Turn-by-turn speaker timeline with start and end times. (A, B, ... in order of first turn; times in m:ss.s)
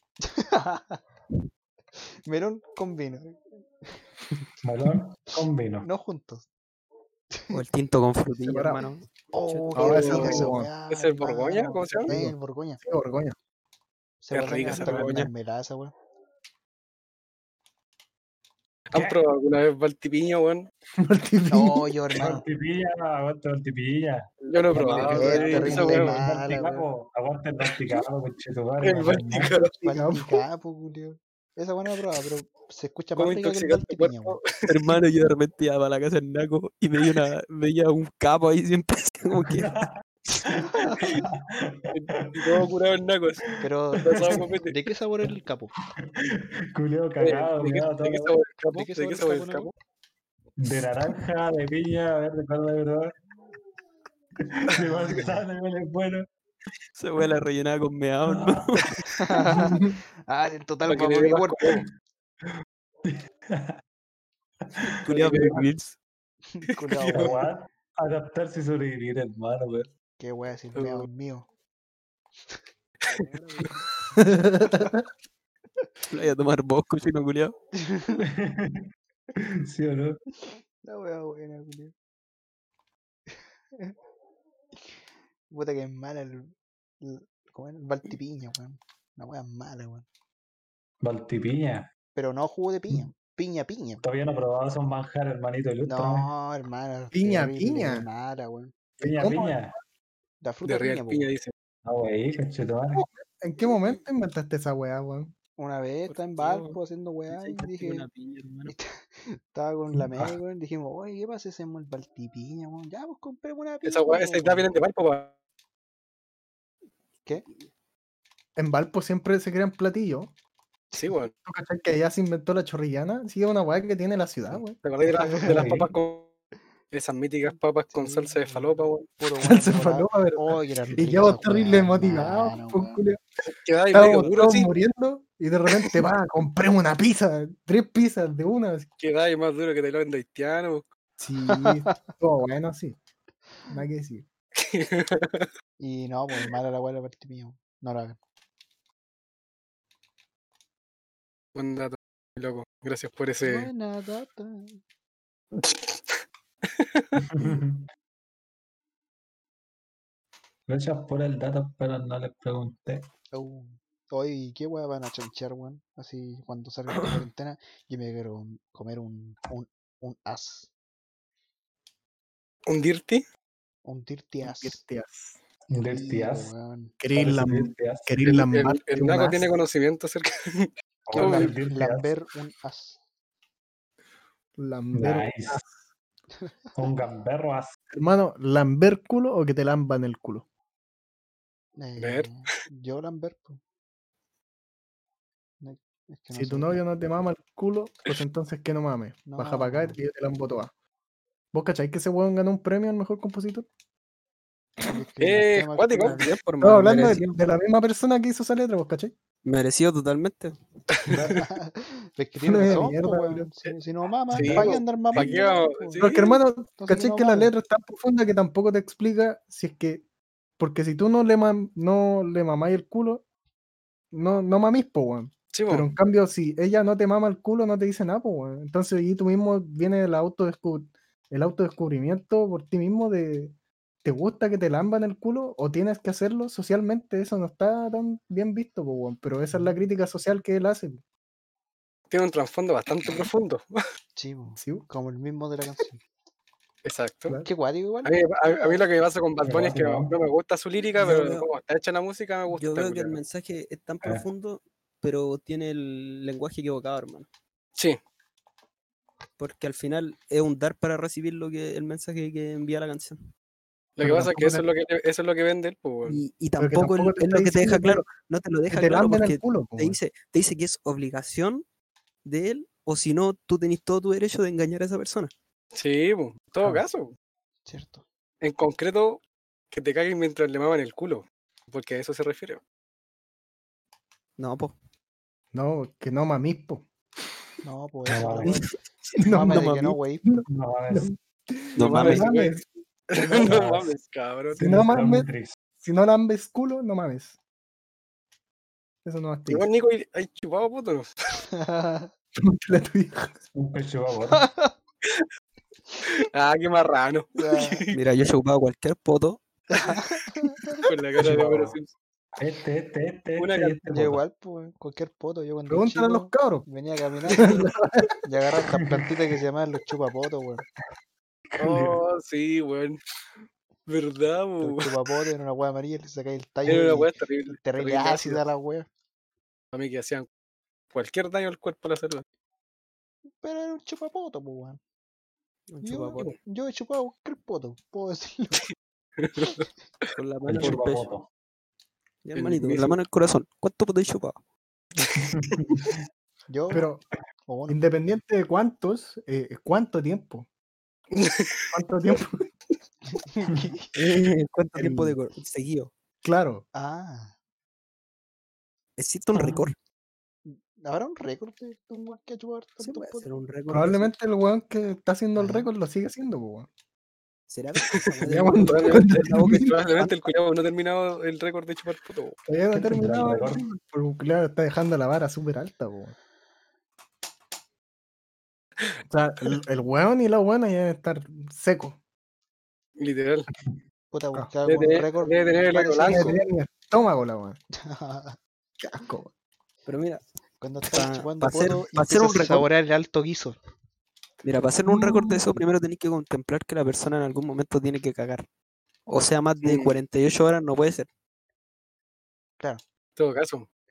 0:00.2-0:01.0 A
0:02.3-0:03.4 A
0:04.6-0:05.9 B
0:05.8-0:06.5 A
0:07.3-0:07.6 A
0:07.5-0:10.4 C
0:08.3-0:08.9 D
0:09.3-0:12.8 A
0:09.7-0:10.7 D
0:09.9-0:12.1 E
0:12.1-0:13.4 D
0:14.2-0:15.9 A
0:14.3-0:15.3 E
0:14.8-0:15.3 C
0:18.9-0:20.7 E
0:18.9-0:19.2 B
0:21.0-0:22.0 D
0:21.5-0:22.4 A
0:22.2-0:29.5 B
0:24.4-0:26.2 E
0:24.9-0:26.9 A
0:28.8-0:29.7 E
0:29.8-0:30.4 D
0:29.8-0:34.4 A
0:33.2-0:34.9 E
0:34.7-0:39.7 C
0:39.4-0:39.9 B
0:40.9-0:42.6 B
0:41.9-0:43.4 E
0:43.6-0:45.7 A
0:44.0-0:44.7 E
0:45.8-0:48.4 B
0:47.2-0:49.7 E
0:48.7-0:49.7 A
0:50.6-0:53.1 B
0:54.5-0:56.3 B
0:54.8-0:55.4 A
0:57.0-0:58.9 C
0:58.3-0:58.8 B
0:59.2-1:01.8 A
0:59.6-1:00.0 D
1:00.9-1:01.8 E
1:03.0-1:03.8 B
1:04.7-1:05.0 B
1:05.0-1:06.0 C
1:05.0-1:05.7 E
1:06.5-1:07.5 A
1:06.8-1:07.4 E
1:07.1-1:09.9 B
1:10.2-1:11.5 A
1:10.8-1:11.1 E
1:14.2-1:15.0 D
1:16.1-1:17.6 C
1:17.8-1:18.2 A
1:18.2-1:18.8 B
1:19.4-1:20.2 B
1:20.8-1:21.9 A
1:25.5-1:30.1 A
1:31.0-1:31.9 B
1:32.2-1:34.0 A
1:34.0-1:36.3 B
1:35.8-1:38.7 A
1:37.1-1:38.1 D
1:39.0-1:39.8 B
1:39.0-1:39.7 D
1:40.4-1:41.3 A
1:40.6-1:41.5 E
1:41.8-1:43.0 B
1:43.0-1:45.3 D
1:45.6-1:48.1 A
1:46.1-1:48.7 C
1:48.7-1:54.7 A
1:50.0-1:50.4 B
1:53.8-1:55.3 E
1:58.6-2:00.3 D
2:01.0-2:01.3 E
2:01.4-2:04.8 D
2:04.8-2:06.3 E
2:05.1-2:05.7 A
2:05.6-2:05.8 B
2:06.9-2:09.1 E
2:07.9-2:13.0 A
2:09.4-2:13.2 D
2:13.5-2:14.7 E
2:13.9-2:18.9 D
2:19.0-2:20.8 E
2:21.2-2:23.0 D
2:21.5-2:21.9 A
2:23.7-2:24.3 D
2:24.6-2:25.5 E
2:25.8-2:28.2 A
2:31.6-2:33.7 E
2:33.4-2:34.8 A
2:35.6-2:36.0 E
2:36.8-2:37.2 E
2:37.2-2:37.9 B
2:40.7-2:43.1 B
2:43.3-2:50.7 A
2:52.7-2:53.2 E
2:53.8-2:54.8 A
2:54.4-2:55.4 D
2:55.7-2:56.5 B
2:55.8-2:57.0 A
2:57.0-2:59.5 D
2:57.1-2:58.2 B
2:58.3-3:01.6 E
3:01.1-3:02.1 B
3:01.2-3:03.0 A
3:04.6-3:05.7 D
3:04.9-3:05.6 B
3:06.8-3:07.7 B
3:07.9-3:10.4 D
3:11.8-3:13.6 A
3:12.0-3:12.3 E
3:15.6-3:16.8 A
3:16.3-3:20.7 D
3:19.3-3:20.0 A
3:21.5-3:23.7 D
3:24.8-3:26.3 A
3:25.2-3:26.3 E
3:26.0-3:27.4 C
3:26.6-3:29.2 D
3:29.4-3:30.6 C
3:31.1-3:31.4 E
3:31.1-3:31.4 B
3:31.4-3:36.1 A
3:32.4-3:33.5 D
3:34.3-3:36.4 E
3:34.3-3:35.4 B
3:36.0-3:40.0 D
3:36.8-3:37.5 A
3:40.6-3:43.2 D
3:44.1-4:01.0 D
3:45.5-3:45.9 E
4:02.1-4:03.7 E
4:04.2-4:06.0 A
4:04.6-4:04.9 D
4:06.8-4:07.4 E
4:07.4-4:08.8 A
4:08.0-4:13.2 E
4:09.4-4:10.2 B
4:11.0-4:11.5 C
4:12.5-4:17.3 C
4:19.4-4:23.2 C
4:24.0-4:26.2 E
4:24.0-4:24.6 D
4:26.1-4:31.6 C
4:26.6-4:28.0 D
4:28.7-4:30.0 D
4:32.2-4:35.3 C
4:35.8-4:37.1 E
4:37.7-4:38.0 A
4:38.4-4:42.6 E
4:44.4-4:44.8 C
4:45.5-4:46.8 D
4:47.6-4:48.6 A
4:48.1-4:48.6 B
4:48.4-4:48.7 C
4:49.2-4:49.7 D
4:49.3-4:50.0 C
4:49.3-4:50.2 A
4:50.2-4:52.7 D
4:50.5-4:51.1 B
4:51.8-4:52.6 E
4:51.8-4:52.4 C
4:53.1-4:54.8 E
4:53.4-4:53.9 B
4:54.5-4:55.5 B
4:54.6-4:55.3 D
4:55.8-4:57.4 D
4:59.0-4:59.7 D
4:59.5-5:01.1 E
5:01.5-5:02.1 A
5:02.4-5:03.4 D
5:03.5-5:04.5 B
5:04.3-5:04.7 A
5:06.2-5:07.9 E
5:07.4-5:07.9 A
5:07.9-5:09.4 C
5:09.7-5:10.9 A
5:10.8-5:11.9 E
5:11.2-5:11.8 B
5:12.4-5:14.2 B
5:13.4-5:13.8 E
5:13.9-5:17.6 A
5:15.7-5:16.7 D
5:17.4-5:18.1 D
5:18.2-5:20.6 A
5:18.7-5:19.1 B
5:21.5-5:22.0 B
5:21.6-5:23.0 E
5:23.9-5:24.9 E
5:24.6-5:28.9 A
5:26.7-5:28.4 E
5:29.7-5:30.3 E
5:30.9-5:32.2 E
5:33.4-5:34.8 A
5:35.7-5:36.3 C
5:35.8-5:38.6 A
5:39.2-5:39.6 E
5:40.2-5:41.1 C
5:40.5-5:41.3 B
5:42.2-5:44.4 C
5:42.4-5:43.0 E
5:45.1-5:46.0 B
5:46.5-5:46.9 A
5:46.7-5:47.0 D
5:47.5-5:47.8 A
5:47.7-5:50.5 D
5:51.1-5:51.7 E
5:51.7-5:52.5 D
5:53.1-5:53.9 A
5:54.0-5:55.9 C
5:54.8-5:55.2 D
5:56.2-5:56.6 D
5:56.7-5:57.3 A
5:59.0-5:59.7 C
6:00.4-6:03.3 A
6:02.8-6:04.1 C
6:03.7-6:06.7 D
6:05.4-6:05.7 A
6:07.5-6:10.1 C
6:07.9-6:12.4 E
6:08.2-6:09.8 D
6:12.5-6:16.2 D
6:12.8-6:13.7 B
6:19.1-6:22.0 D
6:23.0-6:23.5 E
6:24.1-6:26.4 A
6:24.6-6:26.4 E
6:26.1-6:27.6 D
6:27.8-6:28.4 A
6:28.8-6:29.3 D
6:29.9-6:30.2 C
6:30.6-6:33.6 A
6:30.9-6:32.7 C
6:34.4-6:38.5 C
6:34.9-6:35.5 D
6:39.1-6:41.1 C
6:39.6-6:40.0 E
6:43.2-6:43.7 E